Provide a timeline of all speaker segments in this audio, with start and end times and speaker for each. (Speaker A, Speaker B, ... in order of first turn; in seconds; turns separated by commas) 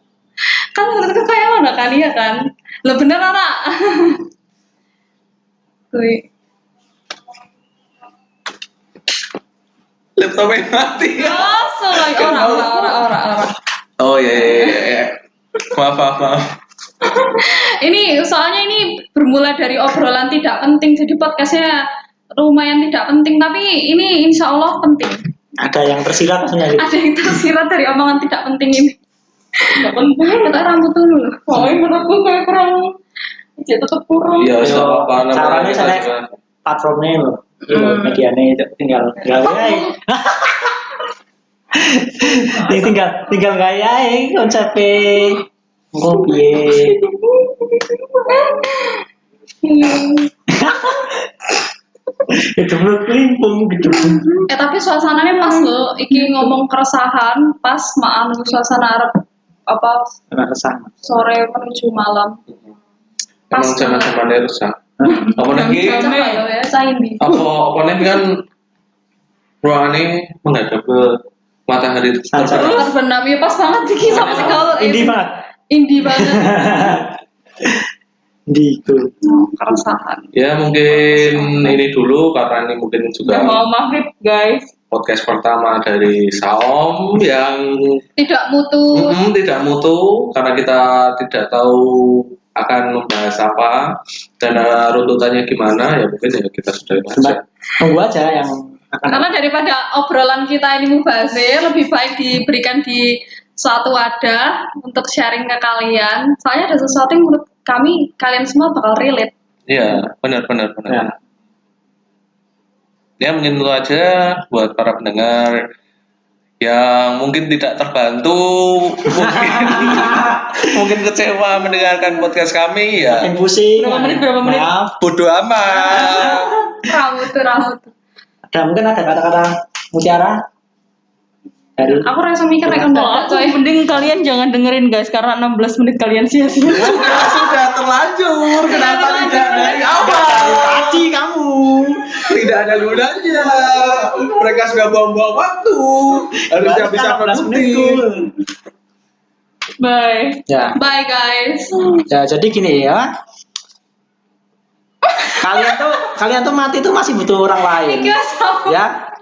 Speaker A: 0.8-4.2, Speaker A: 5.9-6.2, Speaker B: 10.2-13.0, Speaker A: 11.2-13.5, Speaker B: 14.0-15.2, Speaker A: 14.4-14.8, Speaker B: 15.7-16.4, Speaker A: 17.0-21.7, Speaker A: 22.3-25.1, Speaker C: 25.6-27.0, Speaker A: 26.8-28.9, Speaker D: 29.8-30.6, Speaker A: 30.4-31.5, Speaker D: 31.5-33.0, Speaker B: 31.5-31.8, Speaker D: 33.6-34.6, Speaker B: 34.4-36.3, Speaker C: 34.6-36.1, Speaker C: 36.6-40.8, Speaker A: 37.7-38.2, Speaker A: 39.4-39.9, Speaker C: 41.8-47.0, Speaker D: 46.0-48.6, Speaker A: 48.3-49.0, Speaker D: 49.6-50.3, Speaker C: 50.5-51.5, Speaker C: 52.5-54.2, Speaker A: 54.5-60.1, Speaker D: 55.3-56.5, Speaker C: 60.3-60.9, Speaker A: 61.0-62.3, Speaker B: 63.5-64.8, Speaker A: 63.5-64.2, Speaker C: 65.0-65.3, Speaker A: 65.0-67.4, Speaker B: 65.4-66.1, Speaker D: 65.4-66.4, Speaker B: 67.2-68.4, Speaker B: 69.6-71.1, Speaker B: 71.7-72.9, Speaker C: 72.3-72.8, Speaker A: 72.5-77.0, Speaker B: 74.1-74.8, Speaker C: 74.5-75.3, Speaker C: 76.0-77.1, Speaker C: 78.5-79.1, Speaker A: 79.2-80.3, Speaker B: 80.3-83.6, Speaker C: 81.0-81.8, Speaker D: 83.2-84.7, Speaker B: 84.9-88.0, Speaker A: 88.2-89.2, Speaker B: 88.9-93.8, Speaker B: 94.4-97.4, Speaker C: 97.1-99.3, Speaker A: 99.1-103.1, Speaker A: 103.6-109.3, Speaker B: 109.7-111.1, Speaker B: 113.2-115.6, Speaker B: 116.6-123.3, Speaker C: 119.2-120.6, Speaker C: 123.0-124.9, Speaker D: 123.8-124.7, Speaker B: 125.0-126.5, Speaker A: 125.9-127.9, Speaker C: 128.5-130.4, Speaker C: 131.8-132.1, Speaker A: 131.9-133.6, Speaker D: 132.8-137.4, Speaker B: 136.7-141.1, Speaker A: 138.7-139.8, Speaker D: 139.1-139.5, Speaker C: 140.0-142.0, Speaker B: 142.2-148.0, Speaker C: 146.5-148.3, Speaker D: 149.8-150.4, Speaker C: 150.5-150.8, Speaker A: 150.8-152.0, Speaker C: 152.1-153.1, Speaker A: 155.1-155.8, Speaker C: 155.4-158.9, Speaker A: 157.8-158.8